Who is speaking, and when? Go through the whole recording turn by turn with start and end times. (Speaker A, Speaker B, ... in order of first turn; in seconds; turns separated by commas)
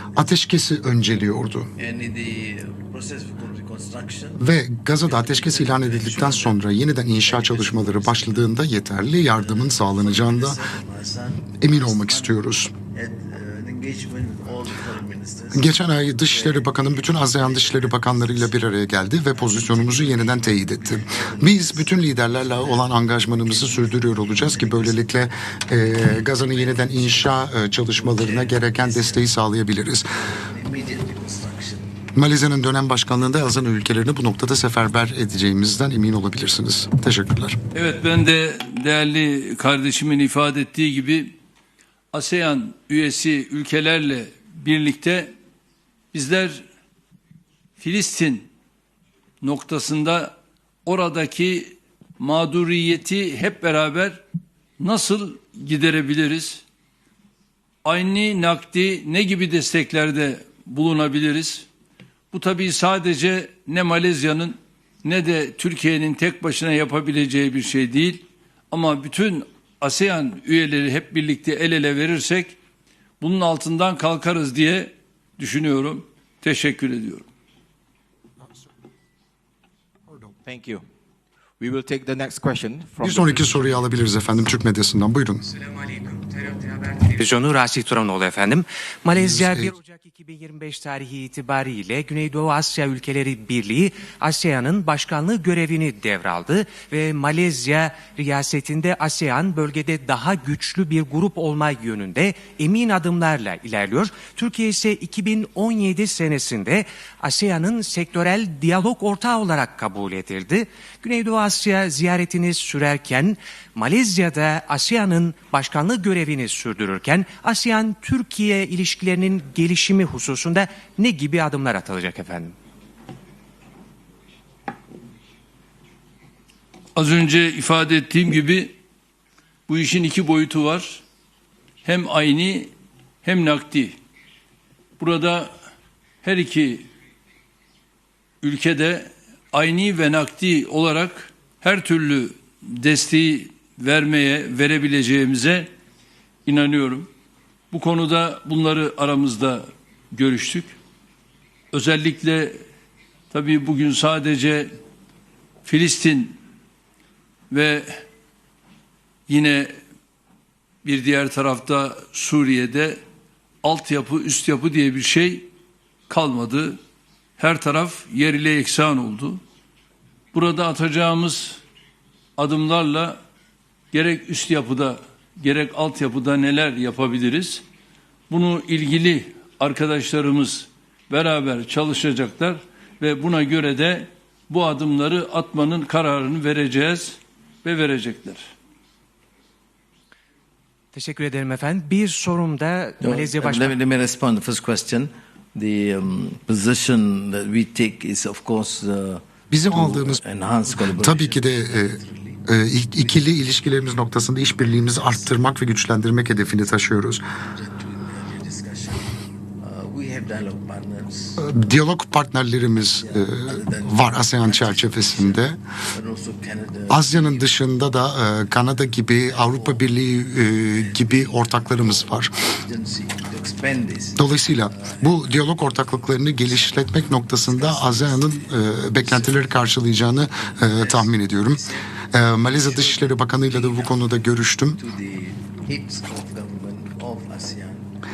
Speaker A: 0.1-1.7, Speaker B: 1.8-4.4, Speaker A: 4.4-10.6, Speaker B: 5.0-8.6, Speaker B: 9.3-18.6, Speaker A: 11.6-12.7, Speaker A: 15.5-30.1, Speaker B: 19.3-29.3, Speaker B: 30.2-31.9, Speaker A: 32.1-37.6, Speaker C: 37.7-41.3, Speaker C: 42.1-45.3, Speaker C: 46.1-46.6, Speaker C: 47.8-48.5, Speaker C: 49.4-50.3, Speaker C: 50.9-54.2, Speaker C: 54.8-56.6, Speaker C: 57.8-61.7, Speaker C: 62.3-72.6, Speaker C: 73.2-77.2, Speaker D: 80.4-80.8, Speaker D: 81.6-83.7, Speaker A: 83.0-85.5, Speaker E: 85.5-122.5, Speaker A: 89.1-89.7, Speaker C: 127.0-128.7, Speaker C: 129.7-131.0, Speaker C: 131.8-132.7, Speaker C: 133.2-134.0, Speaker C: 135.0-135.5, Speaker C: 136.2-136.9, Speaker C: 138.4-145.7, Speaker C: 146.4-147.1, Speaker C: 147.7-150.7, Speaker C: 151.7-152.6, Speaker C: 153.3-154.7, Speaker C: 155.6-156.4, Speaker C: 157.5-158.0, Speaker C: 159.3-159.7, Speaker C: 160.8-163.0, Speaker C: 163.6-165.5, Speaker C: 166.1-166.8, Speaker C: 167.4-169.4, Speaker C: 170.3-171.6, Speaker C: 172.4-173.2, Speaker C: 173.9-177.6, Speaker C: 178.3-188.4, Speaker E: 190.9-193.7, Speaker B: 193.0-202.4, Speaker A: 199.5-207.2, Speaker B: 203.0-205.5, Speaker B: 207.4-211.6, Speaker A: 211.4-215.6, Speaker B: 212.9-217.6, Speaker A: 216.9-222.3, Speaker B: 219.2-219.9, Speaker B: 220.4-234.1, Speaker A: 224.2-234.8, Speaker B: 234.7-237.9